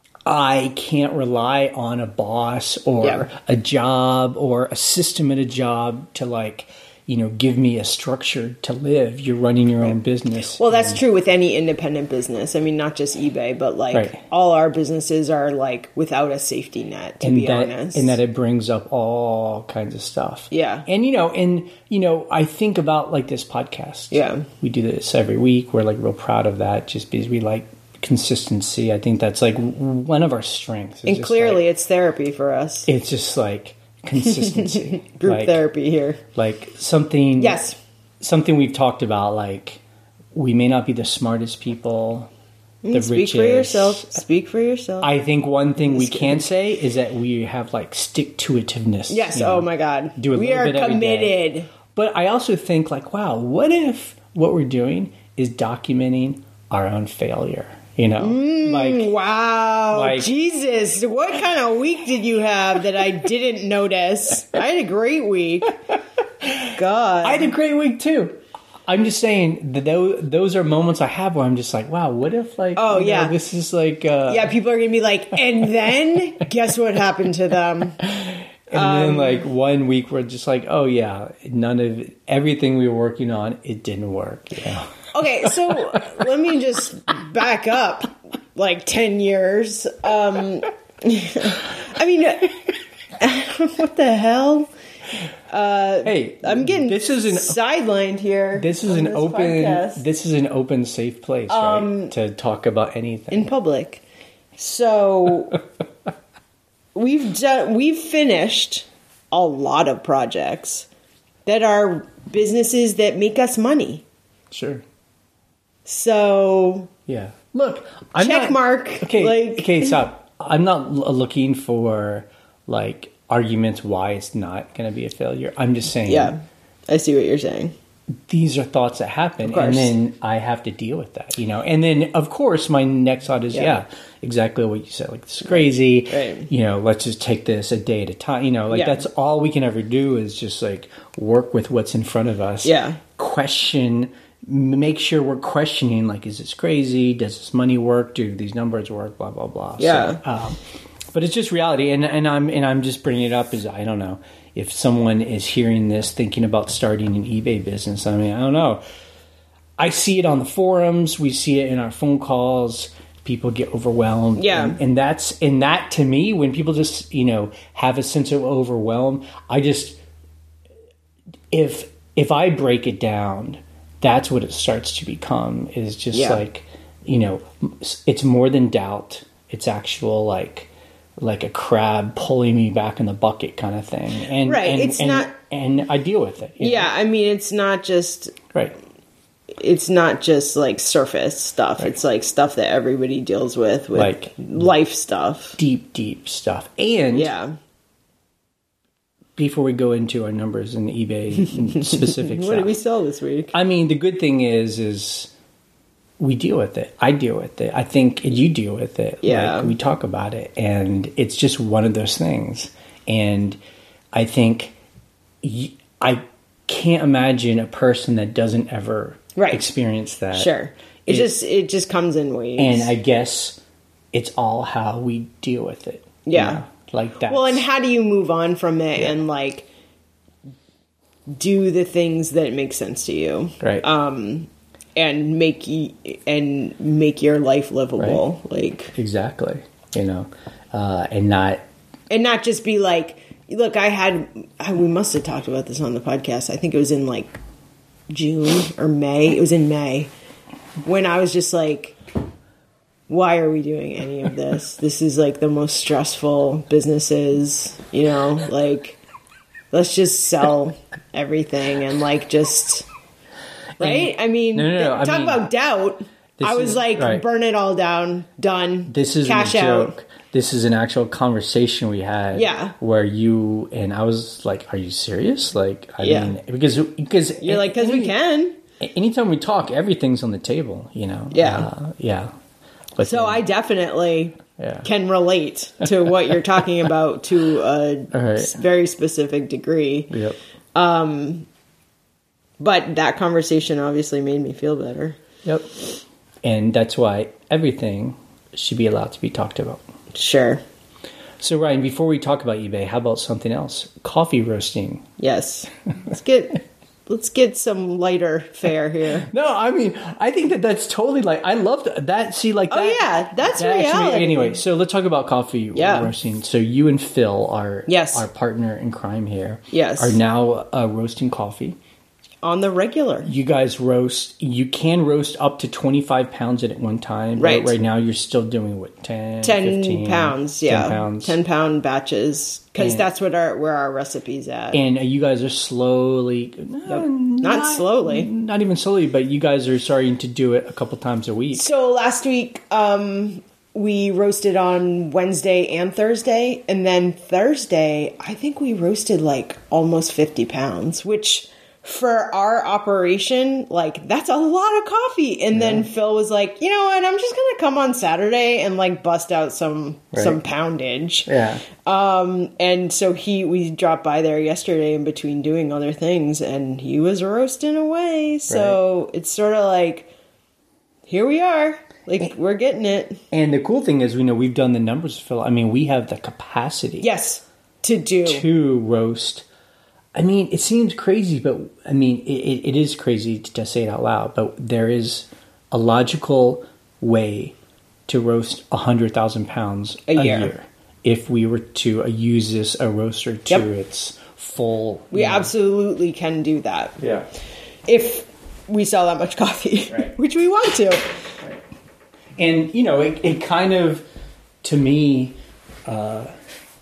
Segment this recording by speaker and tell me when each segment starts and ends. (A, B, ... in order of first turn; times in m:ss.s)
0:00.3-0:11.0 A
0:03.0-0:03.3 B
0:10.6-0:18.2 B
0:13.9-0:14.2 A
0:17.2-0:31.7 A
0:20.5-0:20.9 B
0:24.1-0:24.5 B
0:31.0-0:32.9 B
0:32.9-0:35.6 A
0:34.2-0:36.2 B
0:36.3-0:37.6 A
0:37.4-0:37.8 B
0:38.2-0:39.8 A
0:40.3-0:42.3 A
0:42.8-0:45.1 B
0:42.9-0:44.2 A
0:45.0-0:51.4 A
0:45.9-0:46.6 B
0:49.1-0:51.7 B
0:51.9-0:59.1 A
0:58.2-1:05.8 B
0:59.9-1:00.3 A
1:06.4-1:06.7 A
1:06.7-1:07.5 B
1:07.2-1:14.5 A
1:12.8-1:13.4 B
1:14.3-1:18.1 B
1:18.2-1:26.0 A
1:18.7-1:19.4 B
1:25.1-1:32.5 B
1:33.2-1:34.7 B
1:35.5-1:40.0 B
1:36.0-1:37.6 A
1:38.6-1:43.5 A
1:41.5-1:42.1 B
1:43.3-1:44.0 B
1:44.6-1:45.6 B
1:47.0-1:50.9 B
1:51.5-1:54.0 B
1:54.5-1:54.8 A
1:55.9-1:56.9 B
1:57.1-2:06.4 A
1:58.2-2:00.0 B
2:06.1-2:07.7 B
2:08.3-2:30.6 A
2:09.4-2:09.9 B
2:16.1-2:16.5 B
2:18.7-2:19.0 B
2:22.6-2:23.0 B
2:29.8-2:30.2 B
2:31.1-2:38.8 A
2:39.8-2:50.0 A
2:44.4-2:44.8 B
2:51.5-3:06.9 A
2:56.1-2:56.4 B
3:04.4-3:05.3 B
3:06.6-3:08.4 B
3:09.5-3:15.6 B
3:14.0-3:14.3 A
3:15.6-3:17.3 A
3:17.1-3:17.6 B
3:19.4-3:22.8 A
3:21.6-3:23.5 B
3:23.5-3:25.3 A
3:26.2-3:33.6 A
3:29.2-3:29.8 B
3:34.1-3:34.8 A
3:35.4-3:40.5 A
3:39.4-3:39.6 B
3:40.3-3:42.9 B
3:41.1-3:41.3 A
3:42.6-3:43.6 A
3:44.1-3:47.6 A
3:46.2-3:46.6 B
3:47.2-3:49.7 B
3:51.3-3:59.0 B
3:53.6-3:53.9 A
3:59.0-4:01.6 A
4:02.1-4:07.4 B
4:08.1-4:10.1 B
4:10.8-4:12.0 B
4:13.1-4:19.0 B
4:19.7-4:22.9 B
4:23.8-4:30.0 B
4:23.8-4:25.5 A
4:26.4-4:27.2 A
4:28.9-4:38.2 A
4:32.3-4:32.7 B
4:36.0-4:36.3 B
4:37.4-4:38.6 B
4:38.8-4:42.3 A
4:41.3-4:41.7 B
4:43.0-4:43.4 A
4:43.0-4:50.1 B
4:44.6-4:44.9 A
4:48.1-4:48.6 A
4:50.1-4:50.4 A
4:50.8-4:51.5 B
4:52.6-4:55.2 B
4:55.4-4:55.8 A
4:56.4-4:59.8 A
5:00.1-5:00.6 B
5:01.4-5:05.1 A
5:05.2-5:09.3 B
5:09.2-5:21.8 A
5:12.7-5:14.6 B
5:15.8-5:16.1 B
5:17.9-5:18.3 B
5:19.7-5:20.2 B
5:22.4-5:23.3 B
5:23.2-5:31.4 A
5:27.4-5:27.8 B
5:29.4-5:34.8 B
5:32.8-5:33.1 A
5:34.7-5:41.7 A
5:36.9-5:38.3 B
5:41.5-6:10.1 B
5:55.5-5:55.9 A
6:00.1-6:00.4 A
6:01.3-6:01.6 A
6:08.5-6:08.8 A
6:11.1-6:13.2 B
6:13.3-6:17.1 A
6:17.0-6:18.5 B
6:18.2-6:19.5 A
6:20.2-6:27.6 A
6:28.1-6:35.5 A
6:30.1-6:30.5 B
6:35.1-6:37.0 B
6:37.0-6:37.2 A
6:37.9-6:41.1 B
6:42.4-6:44.1 A
6:44.6-6:46.3 A